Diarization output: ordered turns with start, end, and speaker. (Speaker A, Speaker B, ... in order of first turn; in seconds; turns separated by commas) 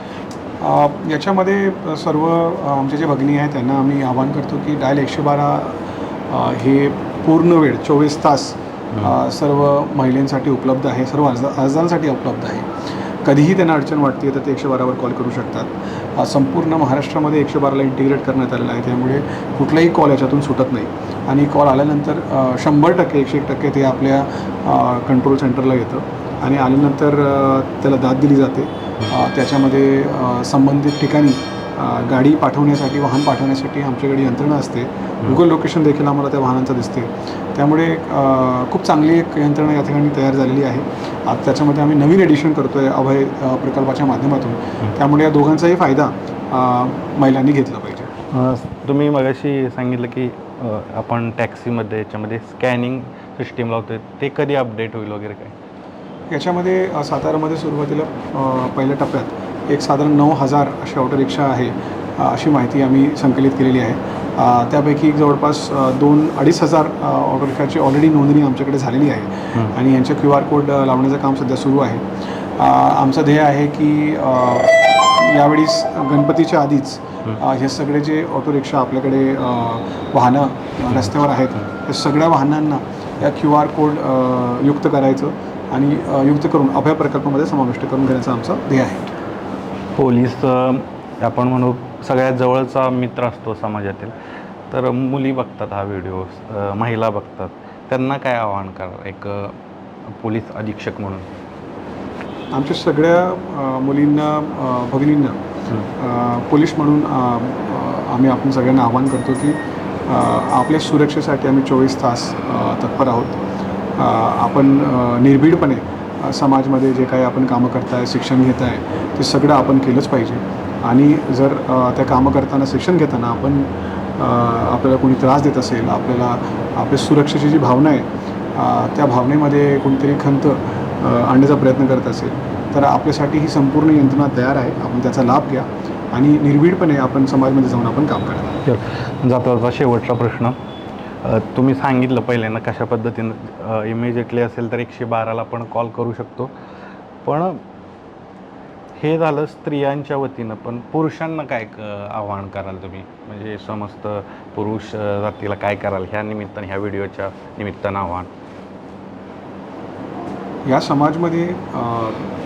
Speaker A: 0.6-48.1, Speaker B: 48.3-55.5, Speaker A: 56.3-89.1, Speaker B: 89.9-94.1, Speaker B: 94.7-99.6, Speaker B: 100.1-101.3, Speaker A: 102.5-105.4, Speaker A: 106.0-113.4, Speaker A: 114.0-138.6, Speaker B: 138.6-140.6, Speaker B: 141.2-146.5, Speaker B: 147.2-147.6, Speaker B: 149.0-158.3, Speaker A: 160.7-162.3